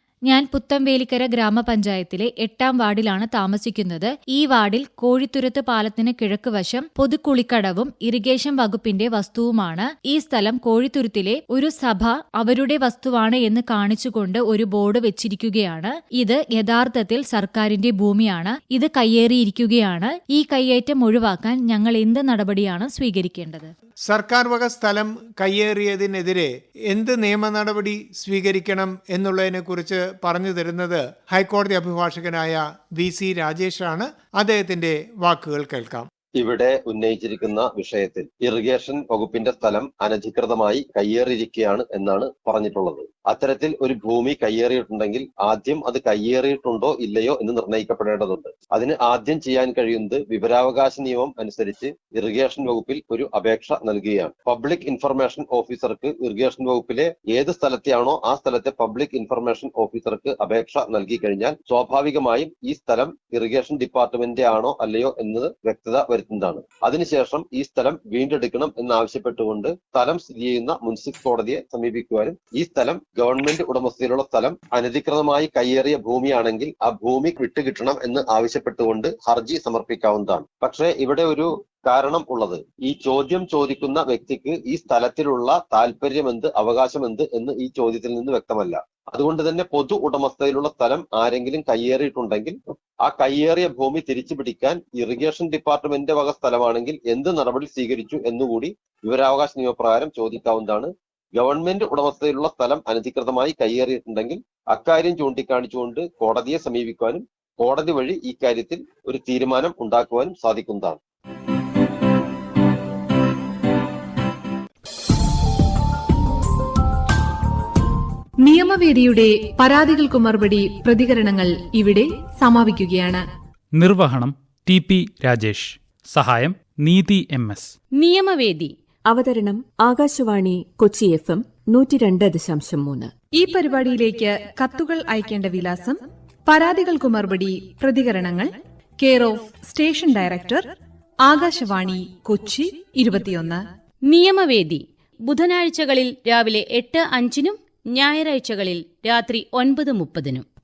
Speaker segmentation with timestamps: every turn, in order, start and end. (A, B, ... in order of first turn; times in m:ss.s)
0:00.2-0:23.7 A
0:24.1-0:36.1 B
0:36.4-1:51.0 C
1:58.4-2:03.2 D
2:03.7-2:07.7 E
2:08.0-2:08.7 F
2:09.1-2:13.1 G
2:13.3-2:20.7 D
2:21.2-2:23.6 D
2:24.1-2:30.4 F